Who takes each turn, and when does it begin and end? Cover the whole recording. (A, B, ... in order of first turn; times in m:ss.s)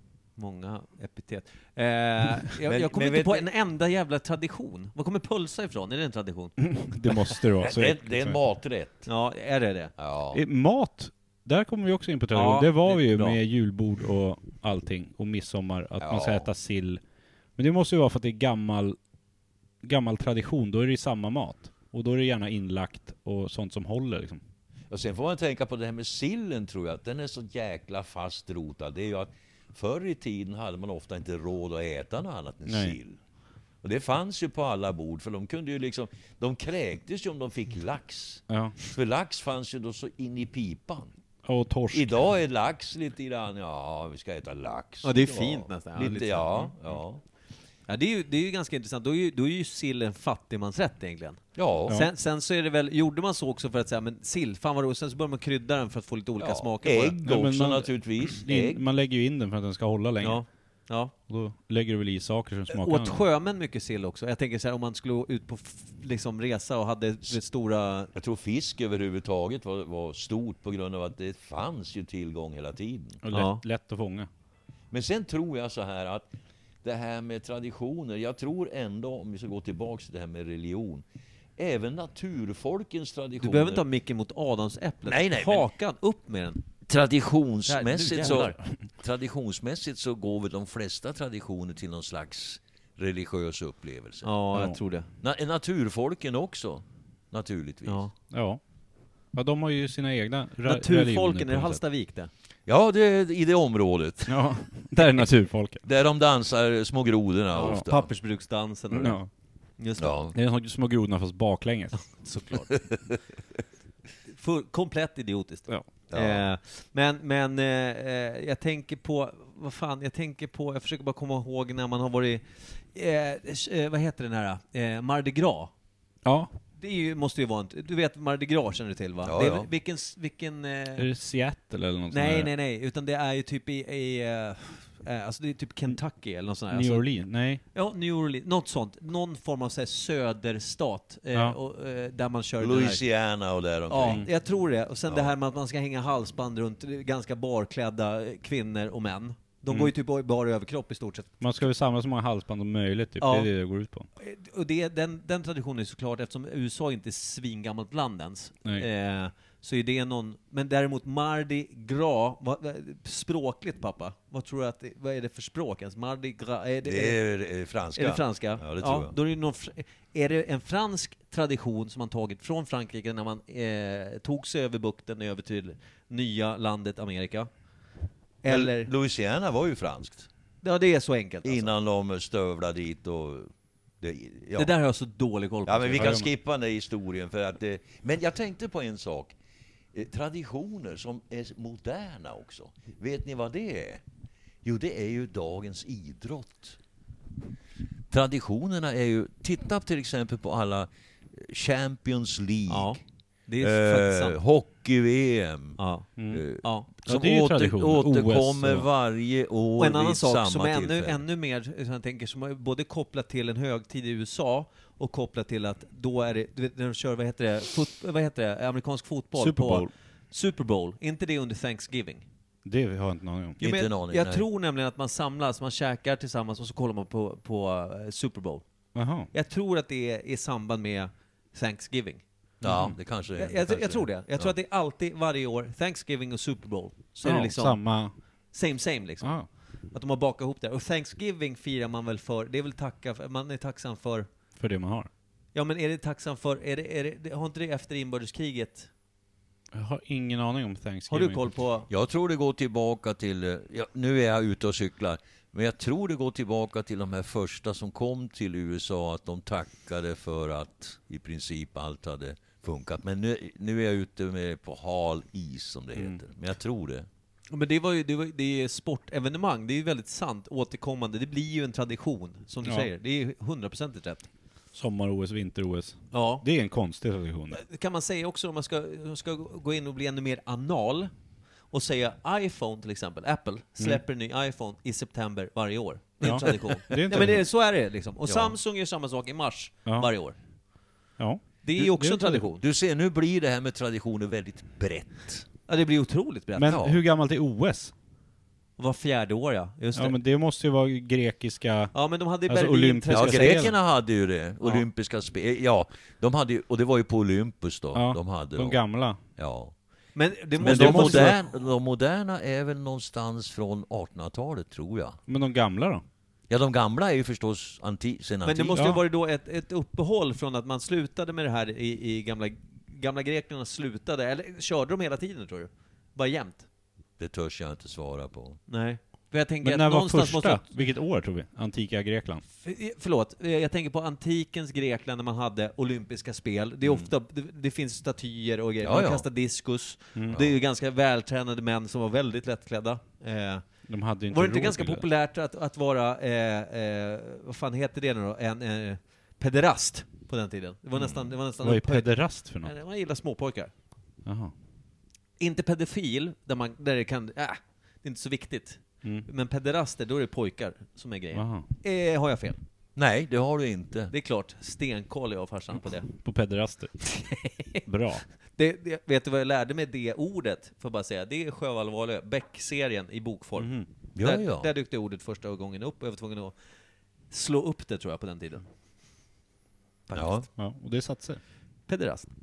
0:00.4-0:06.6 A
0:02.6-0:03.5 B
0:06.6-0:08.4 C
0:07.6-0:09.1 B
0:09.1-0:09.9 A
0:10.0-0:10.4 B
0:10.3-0:17.0 C
0:12.3-0:13.4 A
0:16.0-0:16.5 B
0:17.6-0:19.0 C
0:19.8-0:24.4 C
0:24.9-0:33.2 B
0:32.7-0:33.0 C
0:33.8-0:41.1 B
0:38.5-0:38.8 C
0:41.4-0:42.2 C
0:41.9-0:47.2 B
0:45.0-0:46.9 A
0:47.9-0:57.2 A
0:51.6-0:52.0 B
0:56.4-0:58.8 B
0:57.2-1:00.4 C
1:00.2-1:01.1 A
1:01.3-1:03.2 C
1:02.7-1:08.1 A
1:08.2-1:13.2 B
1:13.2-1:14.3 C
1:13.3-1:13.6 A
1:14.9-1:16.3 B
1:16.8-1:21.0 B
1:21.6-1:23.8 B
1:23.4-1:26.6 A
1:25.1-1:25.7 B
1:26.9-1:34.3 B
1:27.7-1:28.6 A
1:34.2-1:35.1 A
1:35.2-1:38.1 B
1:37.9-1:38.1 A
1:38.3-1:38.6 C
1:39.3-1:41.8 C
1:40.6-1:42.3 A
1:42.7-1:44.4 B
1:44.3-1:45.8 C
1:45.8-1:48.1 B
1:47.5-1:49.2 A
1:48.9-1:49.3 C
1:49.8-1:50.2 A
1:50.0-1:50.4 B
1:50.3-1:52.1 C
1:52.0-1:52.8 A
1:54.3-2:05.7 A
1:56.1-1:56.4 B
2:06.2-2:06.5 C
2:06.8-2:11.1 A
2:09.2-2:09.7 B
2:11.0-2:12.5 C
2:12.1-2:17.1 A
2:16.7-2:17.6 C
2:17.7-2:23.0 A
2:22.6-2:24.3 B
2:23.9-2:31.4 A
2:25.1-2:25.3 B
2:31.4-2:34.1 C
2:33.2-2:33.5 A
2:34.2-2:47.2 A
2:46.8-2:49.1 B
2:48.0-2:57.5 A
2:58.4-2:58.9 A
2:58.5-3:00.3 B
3:00.6-3:01.7 A
3:01.4-3:04.7 B
3:04.6-3:06.2 A
3:05.7-3:09.4 B
3:06.0-3:06.3 C
3:09.9-3:14.0 B
3:14.6-3:16.8 B
3:18.1-3:23.0 B
3:22.7-3:24.4 A
3:23.6-3:25.8 B
3:25.8-3:26.1 A
3:26.2-3:26.4 C
3:26.3-3:31.2 B
3:26.6-3:26.9 A
3:27.0-3:28.9 C
3:29.8-3:42.2 A
3:39.4-3:39.9 C
3:42.6-3:43.6 C
3:43.6-3:44.5 B
3:43.6-3:48.6 A
3:49.0-3:49.3 C
3:49.3-3:52.2 A
3:52.6-3:54.5 B
3:52.6-3:53.0 C
3:53.4-3:57.8 A
3:57.2-3:58.1 C
3:58.5-3:59.4 A
3:59.2-3:59.5 C
3:59.9-4:04.3 A
4:04.6-4:05.1 C
4:05.5-4:08.9 A
4:09.7-4:11.4 C
4:11.1-4:11.9 A
4:11.9-4:27.1 B
4:27.5-4:34.3 A
4:34.7-4:37.6 C
4:36.1-4:36.5 A
4:37.5-4:41.1 A
4:41.7-4:50.4 A
4:46.2-4:47.4 C
4:48.3-4:48.6 B
4:51.2-4:52.4 C
4:51.6-4:52.6 A
4:52.6-4:55.5 B
4:55.7-4:56.8 A
4:56.6-4:57.9 C
4:56.6-4:57.0 B
4:58.8-5:00.2 A
5:00.0-5:01.9 C
5:01.9-5:03.7 A
5:02.5-5:03.7 C
5:03.1-5:08.8 B
5:07.9-5:09.2 C
5:09.4-5:09.7 B
5:10.2-5:11.4 A
5:10.6-5:11.4 C
5:10.6-5:15.2 B
5:15.3-5:16.0 C
5:16.5-5:18.9 B
5:18.4-5:26.7 A
5:18.8-5:19.0 C
5:27.2-5:28.6 B
5:28.7-5:30.7 A
5:29.6-5:32.4 C
5:32.6-5:43.7 A
5:38.8-5:39.3 B
5:43.9-5:45.0 C
5:44.3-5:53.7 A
5:51.0-5:51.3 B
5:51.6-5:52.7 C
5:54.2-5:54.5 C
5:55.4-6:02.6 A
6:01.3-6:01.7 C
6:03.0-6:04.1 B
6:04.1-6:06.1 A
6:06.1-6:07.0 C
6:07.0-6:07.8 A
6:07.9-6:08.2 C
6:08.6-6:16.6 A
6:13.6-6:13.9 C
6:14.2-6:14.7 B
6:17.3-6:18.6 A
6:20.1-6:20.5 A
6:20.1-6:20.5 B
6:20.6-6:21.4 C
6:21.9-6:22.3 A